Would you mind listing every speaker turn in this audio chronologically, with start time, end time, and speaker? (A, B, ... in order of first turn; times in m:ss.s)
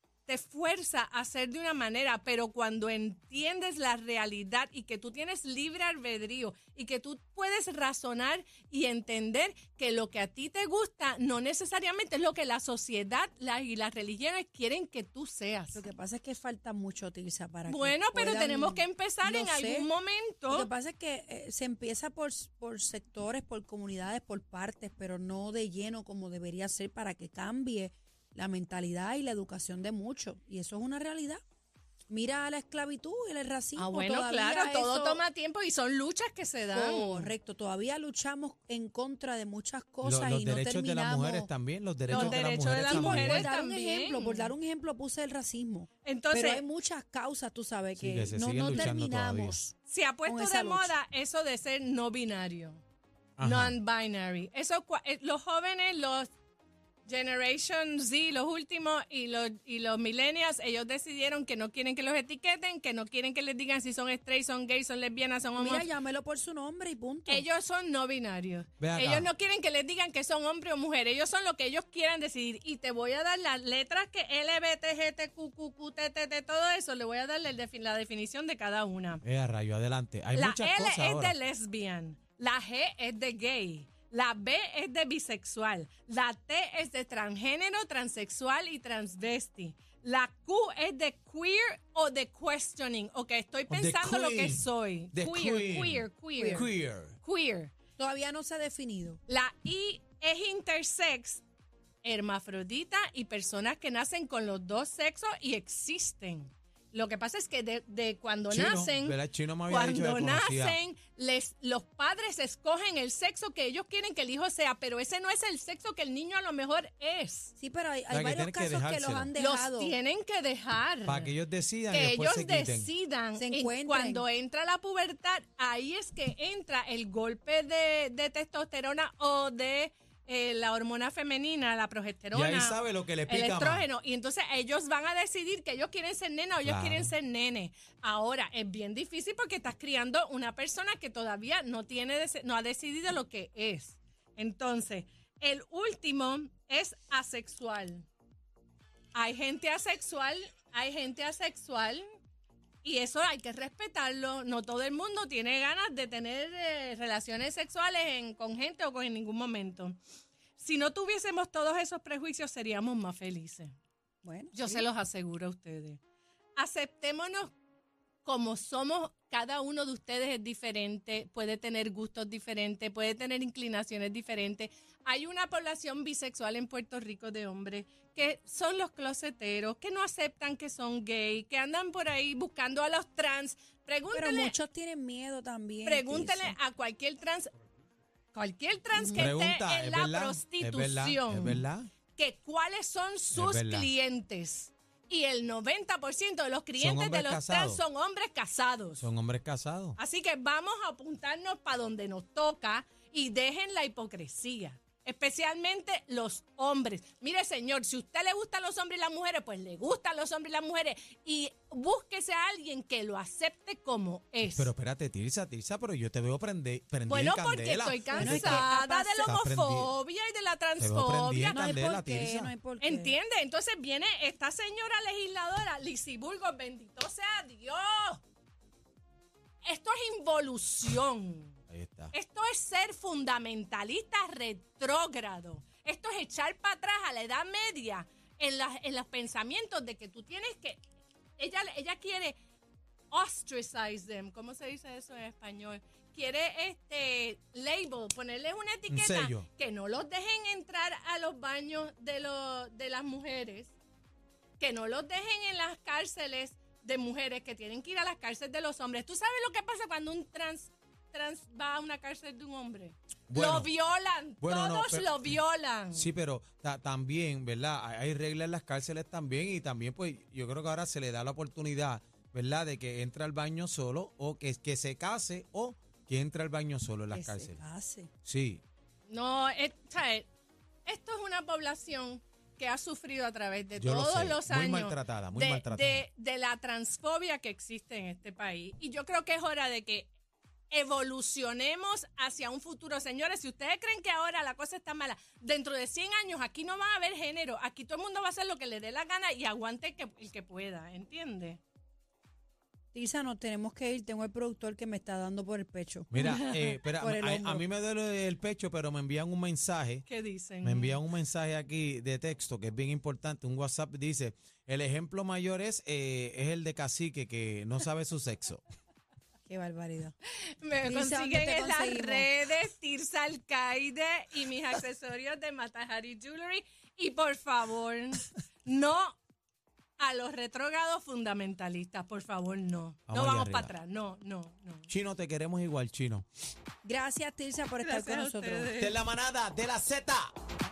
0:00.2-0:15.8 A
0:15.7-0:19.9 B
0:17.6-0:20.7 A
0:20.5-0:31.4 B
0:32.1-0:35.2 B
0:33.8-0:37.3 A
0:36.7-0:41.5 B
0:40.0-0:43.5 C
0:42.1-0:44.5 A
0:42.1-0:49.7 B
0:46.0-0:46.6 A
0:47.9-0:49.6 C
0:49.8-0:52.8 A
0:50.2-0:50.9 B
0:53.4-0:53.8 C
0:53.4-0:56.3 A
0:57.0-1:05.9 A
1:05.6-1:07.5 B
1:07.3-1:19.2 A
1:08.8-1:09.3 C
1:19.2-1:21.4 C
1:20.3-1:37.7 A
1:33.7-1:37.2 C
1:36.3-1:36.6 B
1:38.0-1:39.2 B
1:39.3-1:41.4 A
1:42.0-1:57.5 A
1:48.5-1:50.8 C
1:57.6-1:59.9 B
1:58.1-1:59.3 C
1:59.4-2:01.3 A
2:01.0-2:02.9 C
2:01.9-2:28.1 A
2:03.3-2:04.2 B
2:12.3-2:13.9 C
2:16.6-2:17.1 C
2:29.1-2:32.0 A
2:32.8-2:40.0 A
2:40.6-2:43.7 A
2:44.2-2:44.8 B
2:44.5-2:46.0 A
2:46.6-2:47.5 A
2:48.2-3:04.5 A
3:04.1-3:06.6 B
3:05.8-3:07.5 A
3:08.3-3:19.1 A
3:08.9-3:09.3 B
3:09.1-3:11.9 C
3:13.3-3:13.9 C
3:16.8-3:17.8 C
3:19.0-3:20.0 C
3:20.0-3:34.7 A
3:34.5-3:38.7 C
3:37.1-3:41.9 A
3:38.1-3:39.3 B
3:39.2-3:39.9 C
3:40.8-3:42.5 C
3:41.5-3:43.1 B
3:42.8-3:48.2 A
3:49.6-3:51.6 A
3:51.7-3:52.1 C
3:52.1-4:00.8 A
4:01.4-4:02.4 A
4:03.1-4:13.7 A
4:08.9-4:09.5 C
4:14.6-4:26.1 A
4:23.3-4:23.7 C
4:24.4-4:25.3 C
4:25.9-4:37.6 C
4:37.1-4:38.1 B
4:38.2-4:38.6 C
4:39.1-4:40.3 A
4:40.8-4:50.1 A
4:43.8-4:46.1 C
4:50.7-5:01.6 A
5:02.9-5:06.1 B
5:06.1-5:10.0 C
5:06.2-5:06.8 A
5:06.9-5:07.6 B
5:10.1-5:11.0 A
5:10.6-5:18.6 C
5:19.5-5:20.1 B
5:20.6-5:29.2 A
5:20.8-5:22.3 B
5:30.0-5:34.9 A
5:33.1-5:33.8 C
5:34.9-5:36.2 C
5:36.8-5:38.7 B
5:37.8-5:39.0 A
5:38.8-5:40.3 C